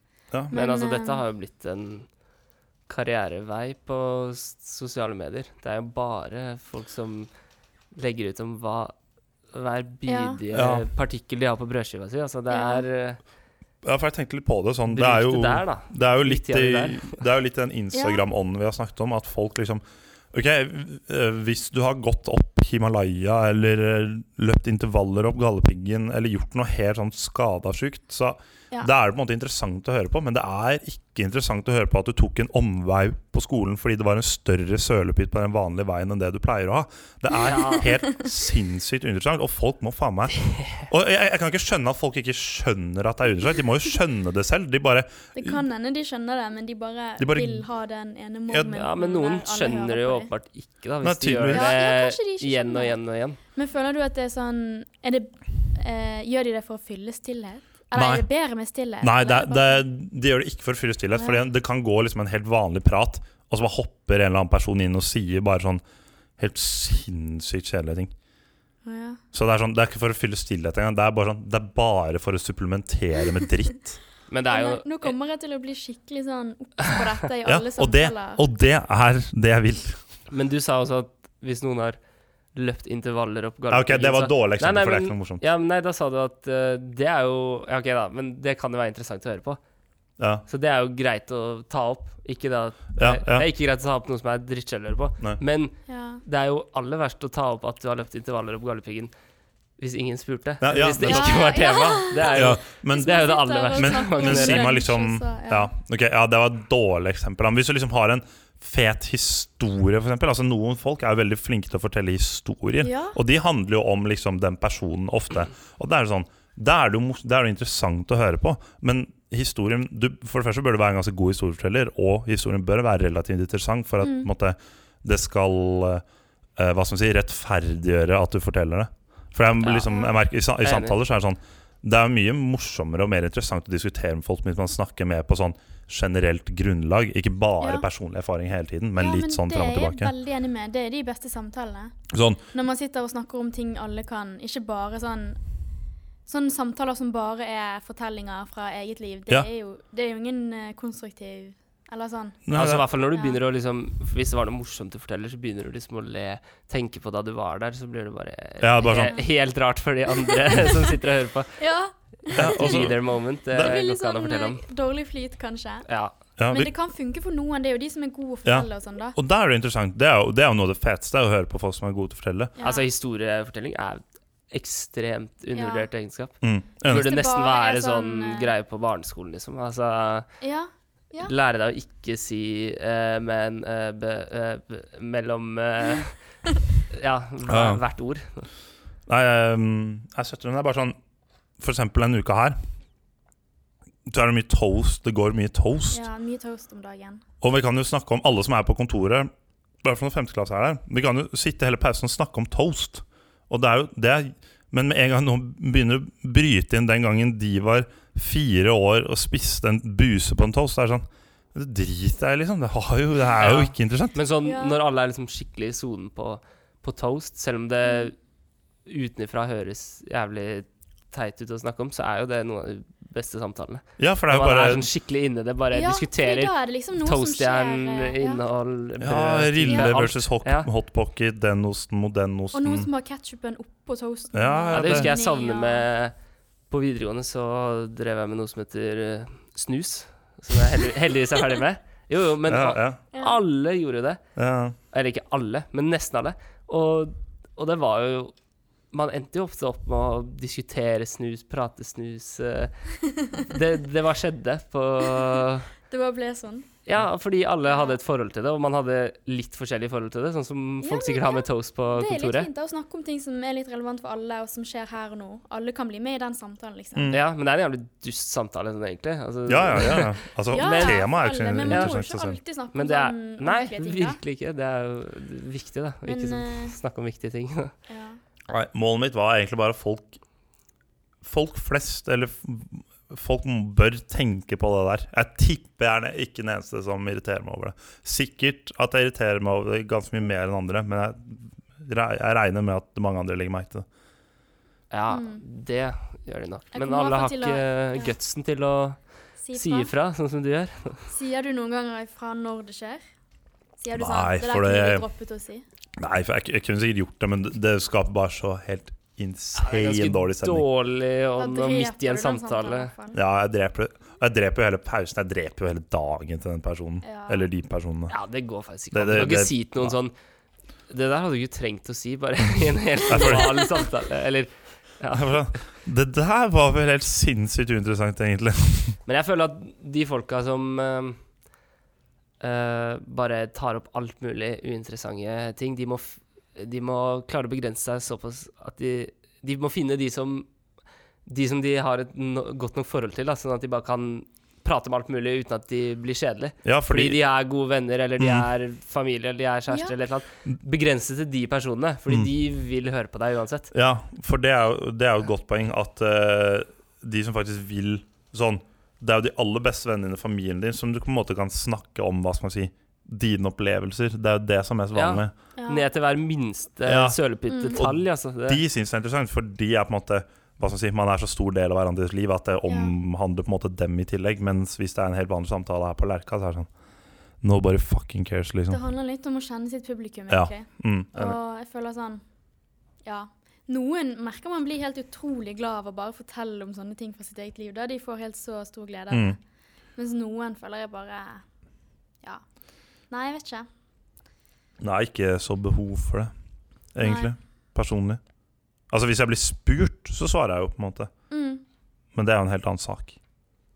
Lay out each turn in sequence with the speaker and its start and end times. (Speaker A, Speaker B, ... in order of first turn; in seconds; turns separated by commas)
Speaker A: 0.5-1.2, Speaker B: 0.5-2.1, Speaker B: 2.9-7.3, Speaker B: 7.9-8.9, Speaker B: 9.5-13.2, Speaker A: 10.1-10.4, Speaker C: 10.5-10.9, Speaker A: 12.5-12.8, Speaker C: 13.8-45.6, Speaker B: 14.9-17.2, Speaker A: 17.9-18.2, Speaker B: 37.4-38.0, Speaker A: 37.5-38.2, Speaker A: 45.4-50.3, Speaker C: 47.2-47.6, Speaker B: 48.7-53.4, Speaker C: 51.0-51.7, Speaker A: 51.5-53.0, Speaker A: 53.5-59.8, Speaker C: 57.9-58.2, Speaker C: 59.0-65.8, Speaker C: 66.4-68.1, Speaker A: 68.8-69.2, Speaker C: 69.3-74.0, Speaker B: 74.3-75.1, Speaker A: 74.5-78.4, Speaker C: 77.5-80.0, Speaker B: 80.3-82.0, Speaker B: 82.5-89.6, Speaker C: 83.7-85.4, Speaker C: 90.2-90.4, Speaker B: 90.5-99.1, Speaker C: 93.0-93.5, Speaker A: 95.9-96.2, Speaker B: 99.8-104.8, Speaker C: 100.6-101.5, Speaker A: 101.0-105.7, Speaker C: 102.3-126.0, Speaker A: 112.8-113.2, Speaker A: 124.0-124.3, Speaker C: 126.6-140.1, Speaker B: 129.6-129.9, Speaker B: 130.6-130.9, Speaker A: 137.6-137.9, Speaker A: 139.0-142.0, Speaker C: 142.1-142.4, Speaker A: 142.5-145.4, Speaker A: 146.2-152.4, Speaker C: 152.5-152.8, Speaker B: 152.5-161.6, Speaker A: 153.1-153.4, Speaker C: 158.6-159.1, Speaker A: 159.0-159.2, Speaker A: 160.3-160.8, Speaker A: 161.6-163.0, Speaker B: 162.3-164.6, Speaker C: 162.4-163.0, Speaker A: 163.5-165.9, Speaker B: 165.9-166.1, Speaker C: 166.4-166.7, Speaker A: 166.5-169.2, Speaker C: 168.4-172.5, Speaker A: 172.6-172.9, Speaker B: 172.6-180.4, Speaker A: 175.5-175.9, Speaker C: 176.4-177.1, Speaker A: 176.9-178.5, Speaker A: 180.4-181.3, Speaker B: 181.2-186.2, Speaker B: 186.9-188.5, Speaker C: 187.5-187.8, Speaker C: 189.1-191.0, Speaker C: 191.6-192.6, Speaker C: 194.1-196.1, Speaker A: 195.9-197.2, Speaker C: 197.4-199.3, Speaker C: 199.8-214.2, Speaker B: 213.4-218.2, Speaker A: 214.4-214.8, Speaker A: 217.8-218.1, Speaker B: 218.9-230.7, Speaker C: 224.0-224.9, Speaker A: 225.7-228.4, Speaker C: 229.0-232.9, Speaker A: 229.7-230.0, Speaker A: 232.5-235.9, Speaker C: 234.3-235.1, Speaker B: 234.7-236.1, Speaker B: 236.7-244.2, Speaker C: 242.5-243.0, Speaker A: 243.1-243.4, Speaker C: 244.4-244.8, Speaker B: 244.9-248.3, Speaker B: 248.9-255.7, Speaker A: 253.0-253.5, Speaker A: 255.0-255.4, Speaker A: 255.9-256.7, Speaker B: 256.9-262.5, Speaker A: 257.7-258.0, Speaker A: 260.8-267.1, Speaker C: 266.9-267.2, Speaker B: 267.1-271.1, Speaker C: 269.5-272.4, Speaker A: 270.5-274.2, Speaker B: 271.6-272.0, Speaker B: 272.7-277.7, Speaker A: 276.0-276.8, Speaker A: 277.9-278.2, Speaker C: 278.5-280.2, Speaker C: 281.2-293.9, Speaker B: 294.9-299.0, Speaker A: 295.1-295.4, Speaker A: 296.7-298.1, Speaker A: 299.4-299.9, Speaker B: 299.5-301.1, Speaker A: 301.1-303.0, Speaker A: 303.8-305.6, Speaker C: 303.9-305.1, Speaker C: 306.0-310.7, Speaker B: 309.5-312.9, Speaker A: 311.4-313.2, Speaker C: 313.1-318.1, Speaker A: 317.0-317.5, Speaker B: 318.1-320.1, Speaker C: 318.9-320.0, Speaker B: 320.9-325.5, Speaker C: 323.1-323.6, Speaker C: 325.1-329.0, Speaker B: 329.1-331.2, Speaker B: 332.4-340.5, Speaker B: 341.2-353.7, Speaker C: 346.6-347.2, Speaker C: 348.2-348.5, Speaker C: 353.7-365.3, Speaker B: 364.9-368.6, Speaker A: 365.6-365.9, Speaker C: 366.9-367.2, Speaker A: 367.5-367.8, Speaker C: 367.7-376.7, Speaker A: 372.7-372.9, Speaker C: 377.4-378.8, Speaker A: 378.7-382.2, Speaker C: 380.3-381.4, Speaker A: 383.0-389.4, Speaker C: 389.1-389.4, Speaker A: 390.0-391.4, Speaker A: 393.1-393.7, Speaker C: 394.8-396.3, Speaker C: 396.9-398.2, Speaker A: 397.0-397.3, Speaker C: 398.9-401.1, Speaker A: 401.3-401.6, Speaker C: 402.1-403.2